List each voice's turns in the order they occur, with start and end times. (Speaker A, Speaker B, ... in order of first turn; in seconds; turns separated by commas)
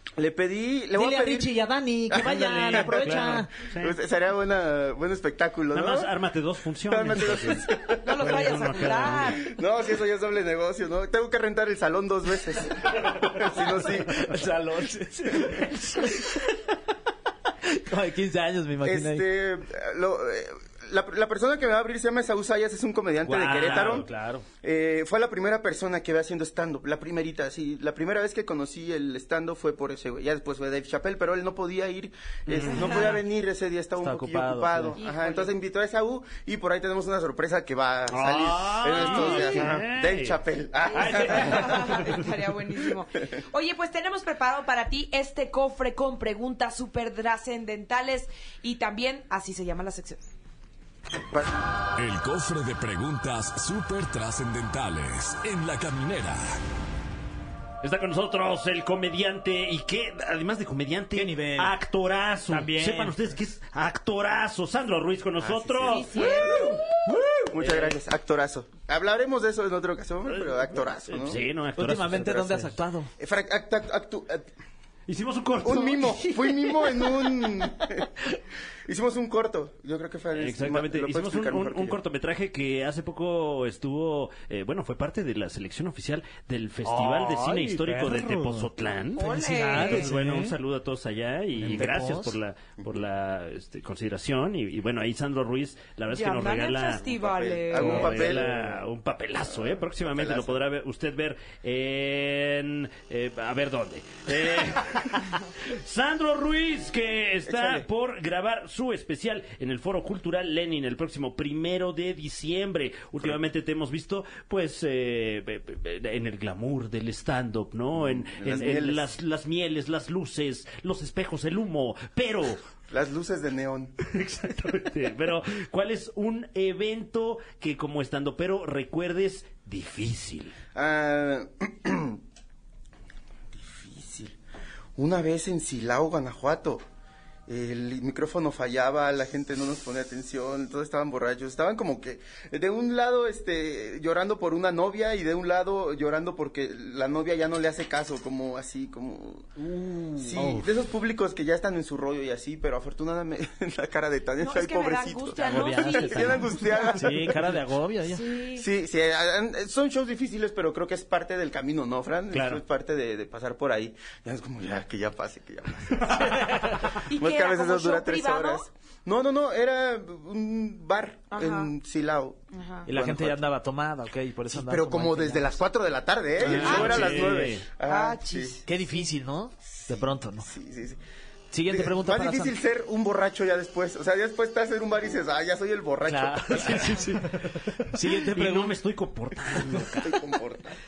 Speaker A: 0.2-1.5, Speaker B: 0.9-3.5, Speaker A: 2.1-6.1, Speaker C: 2.2-4.0, Speaker C: 5.7-9.4, Speaker A: 6.9-8.4, Speaker D: 8.0-9.5, Speaker B: 8.4-9.1, Speaker A: 9.1-14.5, Speaker B: 13.6-16.5, Speaker B: 17.7-19.2, Speaker A: 18.8-24.1, Speaker C: 23.2-24.1, Speaker B: 23.7-24.4, Speaker A: 24.6-42.1, Speaker C: 32.5-33.2, Speaker D: 32.7-33.0, Speaker B: 34.0-35.0, Speaker D: 35.0-35.5, Speaker C: 38.1-40.4, Speaker D: 39.0-39.7, Speaker C: 40.9-42.2, Speaker D: 40.9-50.2, Speaker E: 52.0-56.6, Speaker C: 57.8-68.0, Speaker B: 61.1-61.7, Speaker B: 62.5-63.2, Speaker A: 65.4-66.8, Speaker D: 65.9-66.8, Speaker A: 67.5-71.4, Speaker C: 70.3-72.7, Speaker B: 71.8-73.1, Speaker A: 73.2-74.5, Speaker C: 75.1-76.3, Speaker A: 75.6-78.1, Speaker B: 76.9-77.4, Speaker A: 78.9-82.0, Speaker C: 80.4-97.0, Speaker B: 86.8-90.5, Speaker D: 89.2-90.1, Speaker B: 91.6-92.4, Speaker D: 96.1-98.4, Speaker A: 97.0-98.7, Speaker C: 97.7-122.6, Speaker A: 99.5-100.6, Speaker A: 107.5-107.9, Speaker A: 118.0-119.1, Speaker A: 122.9-124.0, Speaker C: 124.0-130.6, Speaker A: 130.8-132.2, Speaker A: 133.5-134.4, Speaker A: 135.0-136.8, Speaker A: 137.5-149.5, Speaker B: 149.6-150.7, Speaker A: 150.2-157.4, Speaker D: 154.4-157.0, Speaker B: 155.4-158.2, Speaker D: 158.1-158.7, Speaker A: 158.5-173.5, Speaker C: 162.3-162.6, Speaker C: 166.1-166.7, Speaker D: 167.1-168.7, Speaker D: 171.3-171.7, Speaker D: 172.5-172.9, Speaker B: 172.9-175.5, Speaker A: 174.5-178.6, Speaker C: 176.4-177.7, Speaker D: 176.7-178.7, Speaker B: 178.7-180.5, Speaker A: 179.7-181.0, Speaker B: 181.5-182.6, Speaker A: 181.7-187.0, Speaker B: 186.1-188.8, Speaker C: 186.7-190.2, Speaker A: 189.6-190.8